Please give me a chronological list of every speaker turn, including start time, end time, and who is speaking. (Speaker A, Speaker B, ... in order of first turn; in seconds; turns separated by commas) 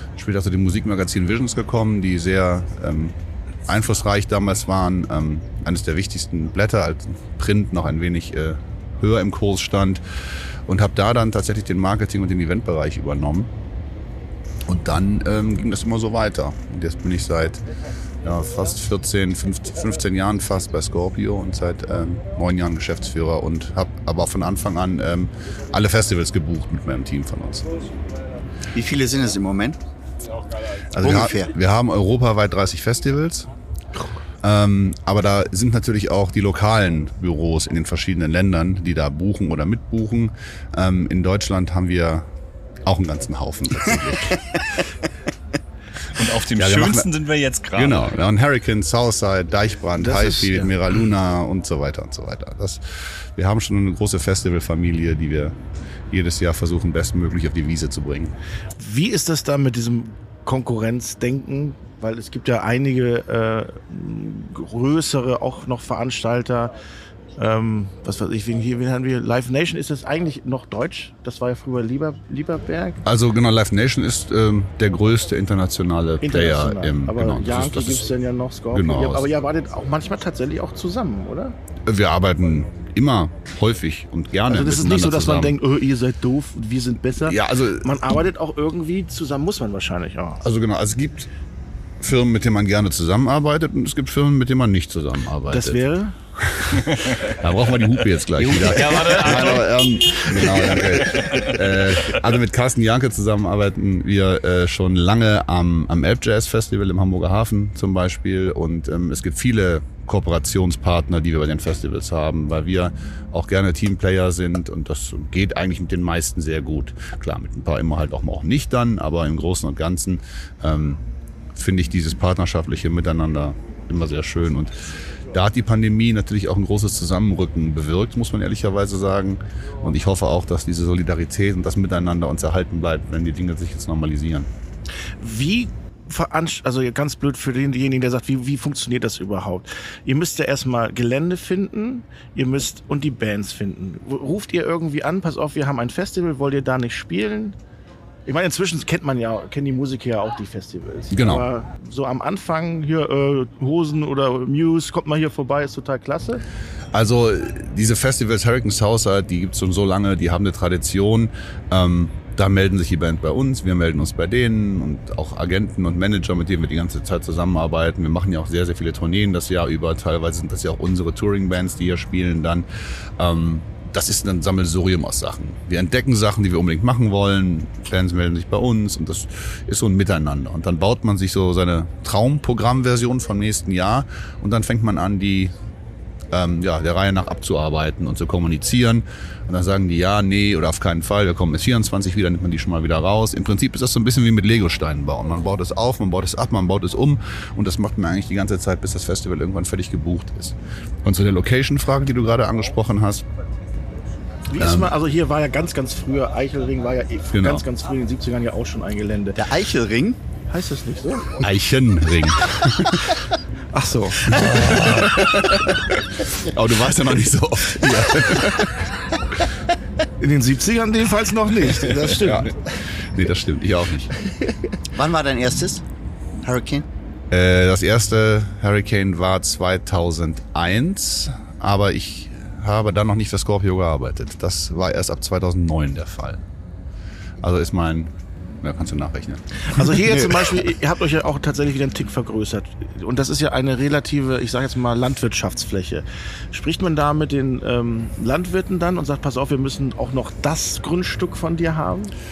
Speaker A: 0.2-3.1, Speaker A: 3.7-10.0, Speaker A: 10.7-13.5, Speaker A: 14.7-17.6, Speaker A: 18.2-27.9, Speaker B: 28.7-29.8, Speaker A: 30.9-33.5, Speaker B: 31.0-31.5, Speaker A: 34.4-42.3, Speaker A: 42.8-44.4, Speaker C: 46.1-48.1, Speaker A: 46.5-47.1, Speaker A: 47.7-52.8, Speaker D: 50.0-50.7, Speaker A: 53.4-55.5, Speaker A: 56.1-58.3, Speaker D: 58.8-66.7, Speaker D: 67.4-73.0, Speaker A: 73.0-78.1, Speaker D: 76.2-81.5, Speaker A: 78.7-79.3, Speaker A: 81.8-85.5, Speaker D: 84.5-90.4, Speaker A: 87.2-87.9, Speaker A: 90.4-91.3, Speaker A: 92.0-95.8, Speaker D: 95.5-96.1, Speaker A: 96.4-121.0, Speaker C: 98.4-101.6, Speaker A: 121.5-134.5, Speaker D: 135.2-147.6, Speaker D: 148.2-156.4, Speaker A: 151.1-151.4, Speaker A: 156.9-172.7, Speaker A: 173.2-185.5, Speaker A: 186.3-203.2, Speaker D: 204.5-209.4, Speaker A: 204.6-204.9, Speaker A: 207.3-207.6, Speaker B: 209.3-210.2, Speaker D: 210.5-211.4, Speaker A: 211.4-213.1, Speaker D: 213.7-215.2, Speaker A: 214.2-215.8, Speaker A: 216.4-218.7, Speaker D: 220.2-222.5, Speaker A: 222.2-224.1, Speaker B: 224.9-225.8, Speaker B: 226.4-226.8, Speaker A: 227.3-236.4, Speaker A: 237.4-238.1, Speaker A: 238.6-239.8, Speaker D: 239.7-252.1